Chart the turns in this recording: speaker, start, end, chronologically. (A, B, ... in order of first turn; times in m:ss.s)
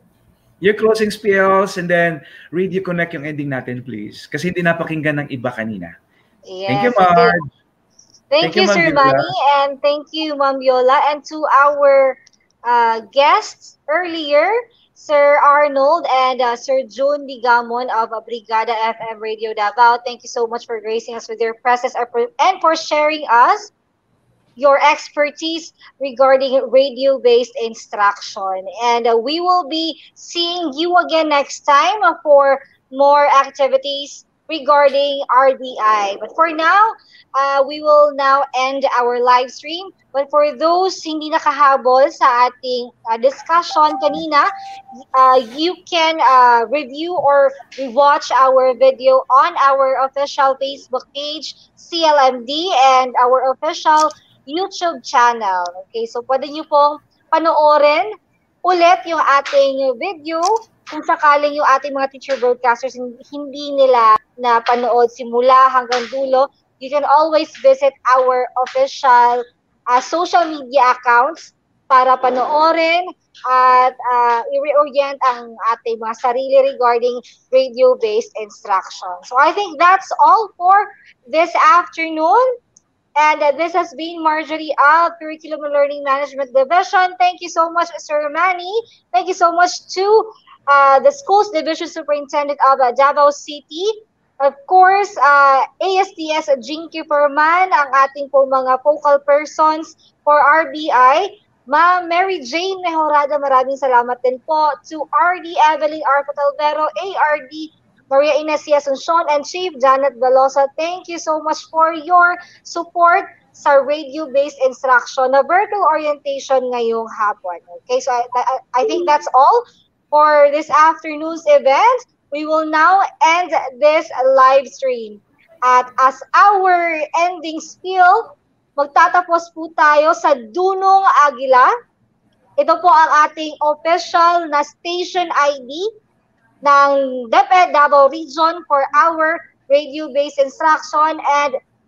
0:00.6-0:05.9 A
0:06.5-0:07.4 B
0:06.7-0:07.4 A
0:08.3-0:23.7 B
0:08.4-0:09.3 A
0:24.6-0:44.5 B
0:45.1-0:58.1 B
0:58.6-1:22.5 B
1:23.2-2:11.7 B
2:12.6-2:15.9 B
2:16.6-2:21.6 B